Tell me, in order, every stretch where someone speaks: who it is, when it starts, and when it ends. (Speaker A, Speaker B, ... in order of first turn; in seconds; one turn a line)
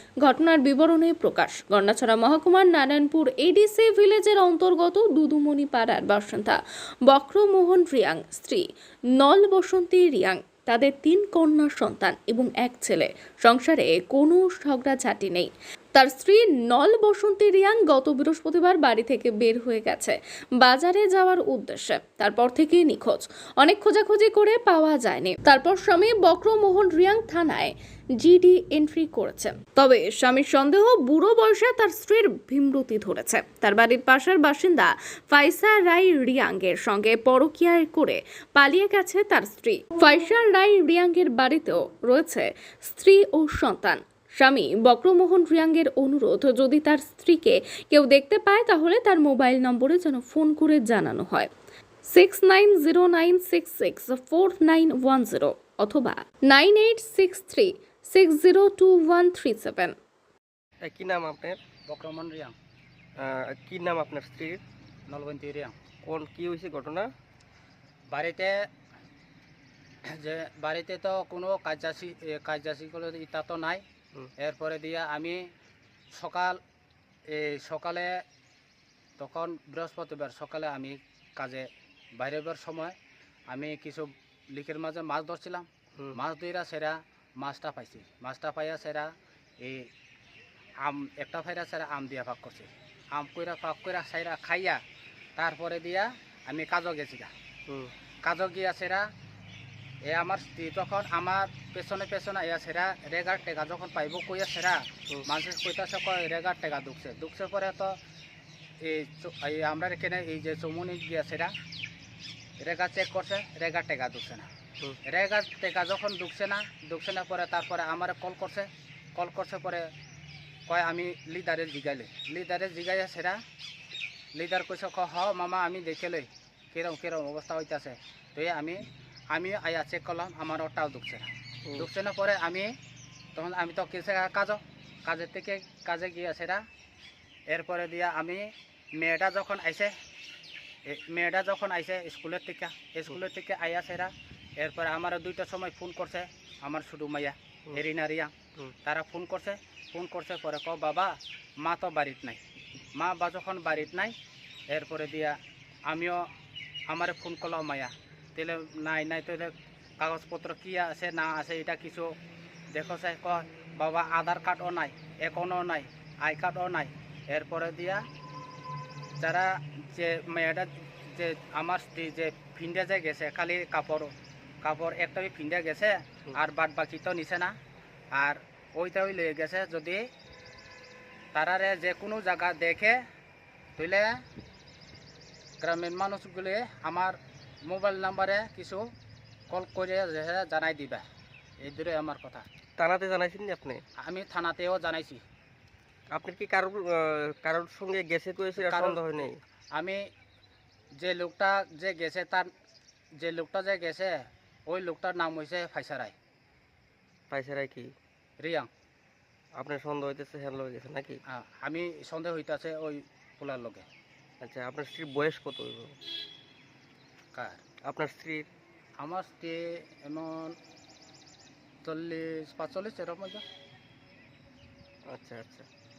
Speaker A: 0.2-8.6
Speaker A: 9.2-51.5
Speaker A: 52.0-59.9
Speaker B: 60.8-61.6
Speaker C: 61.9-62.5
Speaker B: 63.2-64.6
Speaker C: 65.1-65.7
Speaker B: 66.0-67.1
Speaker C: 68.1-68.5
Speaker C: 70.2-73.8
Speaker C: 74.4-75.4
Speaker C: 76.1-76.6
Speaker C: 77.3-78.1
Speaker C: 79.2-82.9
Speaker C: 83.5-89.1
Speaker C: 89.6-89.9
Speaker C: 90.8-94.8
Speaker C: 95.4-97.3
Speaker C: 98.2-99.0
Speaker C: 100.1-107.9
Speaker C: 108.8-111.5
Speaker C: 112.6-114.5
Speaker C: 115.0-119.8
Speaker C: 120.7-123.4
Speaker C: 124.3-128.8
Speaker C: 129.3-131.3
Speaker C: 131.8-132.7
Speaker C: 133.3-136.6
Speaker C: 137.5-139.9
Speaker C: 140.9-148.3
Speaker C: 148.8-152.4
Speaker C: 152.9-154.1
Speaker C: 154.7-155.3
Speaker C: 155.9-156.2
Speaker C: 156.9-162.1
Speaker C: 162.7-168.0
Speaker C: 169.2-174.1
Speaker C: 174.6-177.5
Speaker C: 178.1-180.0
Speaker C: 181.3-183.0
Speaker C: 183.8-184.1
Speaker C: 185.6-188.8
Speaker C: 189.5-191.0
Speaker C: 191.6-192.4
Speaker B: 192.8-193.8
Speaker C: 194.0-195.2
Speaker B: 196.1-199.4
Speaker C: 198.6-199.0
Speaker C: 199.7-200.0
Speaker C: 201.0-202.5
Speaker C: 203.2-206.1
Speaker B: 207.3-207.9
Speaker C: 208.4-208.7
Speaker B: 209.6-211.2
Speaker C: 211.3-213.8
Speaker B: 214.4-216.0
Speaker C: 217.3-217.6
Speaker B: 217.8-218.5
Speaker C: 219.0-220.5
Speaker C: 221.8-223.4
Speaker B: 225.1-225.7